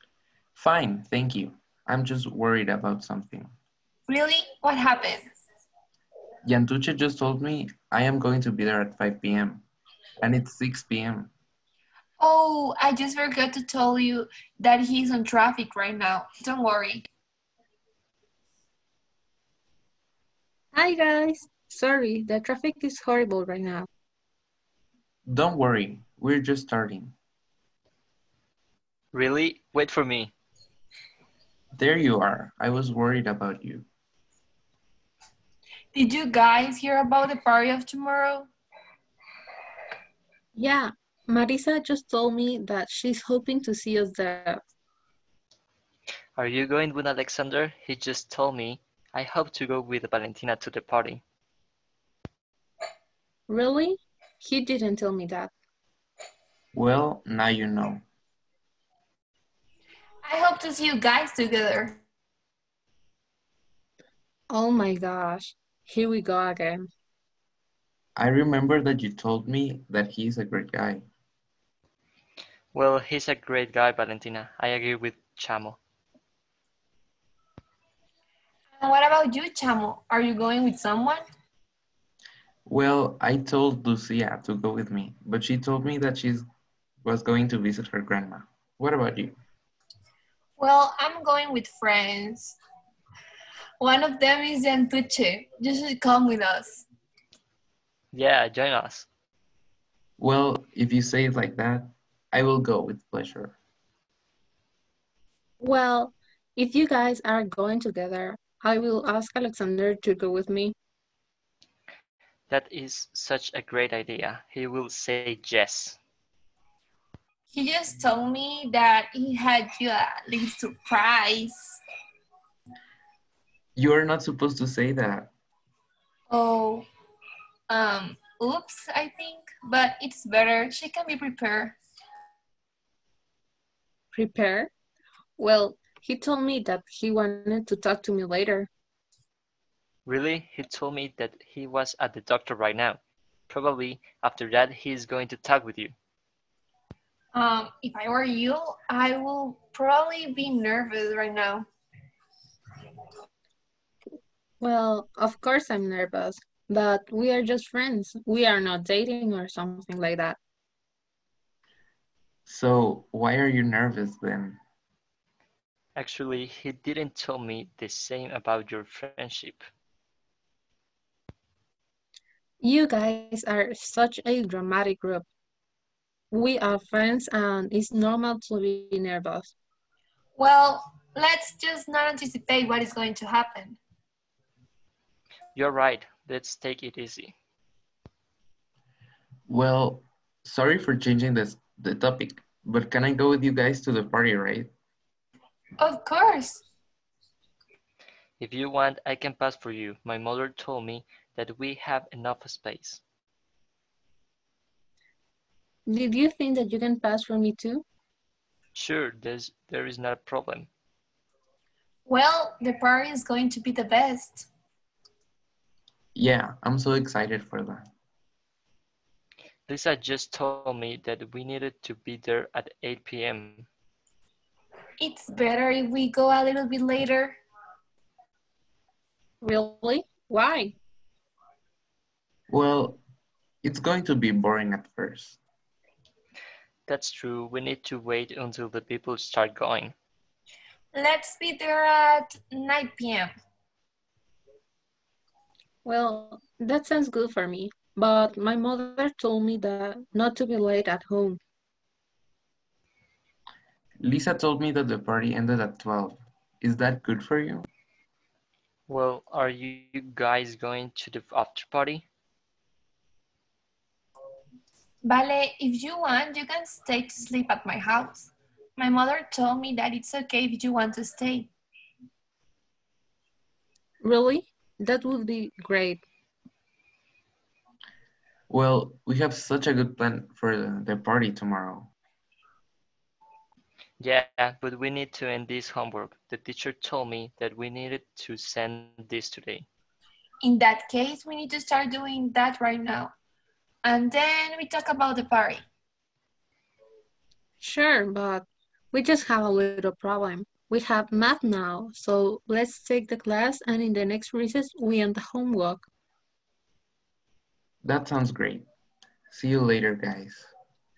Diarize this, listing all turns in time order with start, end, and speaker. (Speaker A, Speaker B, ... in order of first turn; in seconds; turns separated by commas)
Speaker A: 0.6-3.5, Speaker B: 4.1-5.2, Speaker A: 6.5-9.7, Speaker A: 10.2-11.3, Speaker B: 12.2-17.1, Speaker C: 20.7-23.9, Speaker A: 25.3-27.1, Speaker D: 29.1-30.3, Speaker A: 31.8-33.9, Speaker B: 35.9-38.5, Speaker C: 40.6-44.6, Speaker D: 46.4-51.2, Speaker C: 53.5-55.5, Speaker A: 56.7-58.0, Speaker B: 60.2-62.0, Speaker C: 64.5-66.9, Speaker A: 68.2-71.0, Speaker D: 72.7-75.8, Speaker B: 78.8-81.2, Speaker A: 82.7-86.5, Speaker A: 87.0-89.4, Speaker B: 90.6-92.6, Speaker B: 93.8-96.9, Speaker D: 98.1-99.1, Speaker A: 100.2-103.6, Speaker C: 105.6-110.8, Speaker D: 112.5-116.0, Speaker B: 117.5-121.8, Speaker A: 123.8-125.3, Speaker B: 126.3-126.9, Speaker B: 127.7-131.8, Speaker C: 134.1-134.7, Speaker C: 135.4-138.7, Speaker D: 140.1-145.9, Speaker B: 147.3-151.7, Speaker C: 154.6-160.4, Speaker A: 162.5-164.6, Speaker D: 166.0-169.7, Speaker C: 172.6-175.3, Speaker C: 176.3-179.5, Speaker B: 180.4-183.8, Speaker D: 185.6-187.3, Speaker A: 189.5-194.7, Speaker B: 195.8-196.6, Speaker D: 198.4-203.0, Speaker C: 205.9-207.8, Speaker D: 208.7-210.7, Speaker B: 212.1-214.5, Speaker A: 216.2-217.9, Speaker D: 219.7-223.7, Speaker B: 225.0-227.4, Speaker C: 229.4-230.8, Speaker A: 232.5-233.0, Speaker A: 233.6-235.4, Speaker D: 236.9-239.9, Speaker B: 240.9-243.3, Speaker C: 245.8-251.4, Speaker A: 254.0-257.7, Speaker D: 258.9-262.1, Speaker B: 265.0-271.5, Speaker C: 274.0-276.0, Speaker A: 278.5-281.9, Speaker D: 284.0-289.7, Speaker B: 290.4-293.1, Speaker B: 293.8-295.6, Speaker C: 297.6-305.9, Speaker A: 307.8-308.7, Speaker A: 309.3-310.5